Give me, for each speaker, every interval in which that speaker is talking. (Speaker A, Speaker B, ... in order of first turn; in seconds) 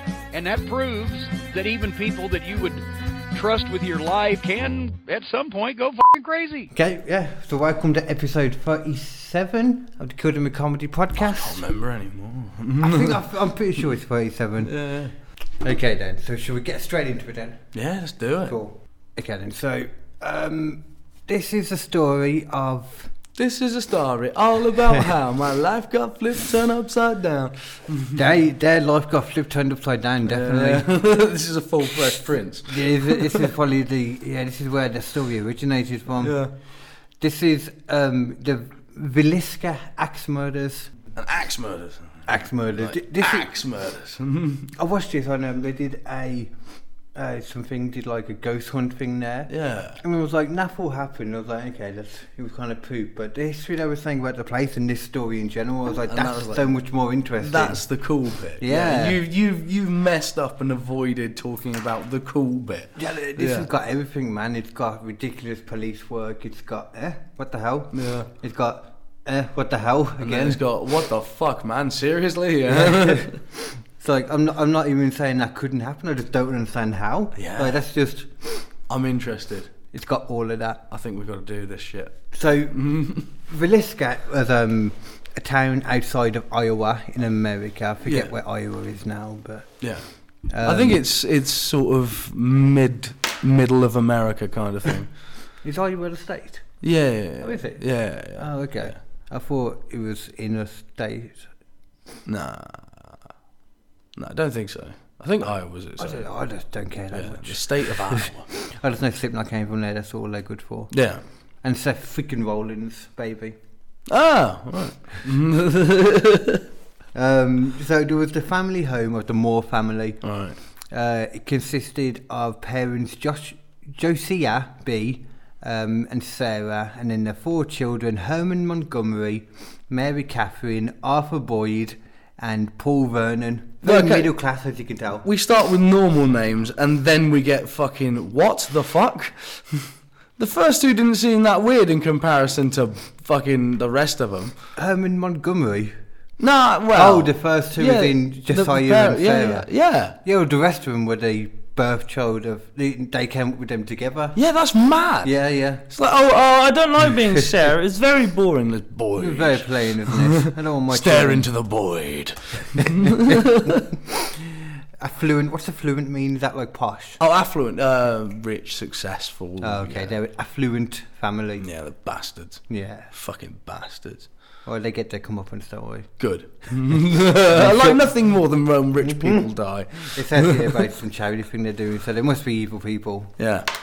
Speaker A: 0.3-6.7
Speaker B: 6.7-11.6, 12.8-14.7, 15.6-17.6, 18.4-23.1, 28.1-30.9, 32.7-36.4, 37.2-40.9, 42.3-43.5, 44.7-46.5, 47.1-57.8, 58.6-59.2, 63.0-70.6, 72.7-73.4, 74.0-78.6, 79.9-80.8, 82.3-89.8, 90.5-91.0, 95.6-96.7, 97.4-101.5, 106.0-110.9, 111.6-113.5, 117.1-120.2, 120.9-135.2, 144.8-145.9, 146.9-154.4, 155.2-155.8, 159.2-161.5, 162.7-163.8, 164.4-167.2, 169.6-171.7, 172.7-173.1, 174.6-176.1, 177.4-178.1, 179.0-183.4
Speaker C: 11.2-13.2, 14.6-15.1, 17.7-18.6, 23.4-28.2, 30.2-33.5, 36.2-36.5, 41.1-44.7, 49.5-50.0, 56.1-56.7, 57.4-63.7, 67.9-68.3, 70.2-73.4, 77.3-77.8, 78.9-79.7, 80.9-83.3, 88.0-88.3, 89.8-90.0, 90.6-95.1, 96.8-98.9, 102.2-103.2, 104.1-106.3, 107.1-108.5, 110.9-111.2, 114.1-116.6, 120.2-120.5, 133.8-134.3, 135.2-144.5, 146.4-150.2, 154.3-155.3, 155.8-163.9, 167.2-170.1, 171.6-174.3, 176.2-180.8, 183.4-183.7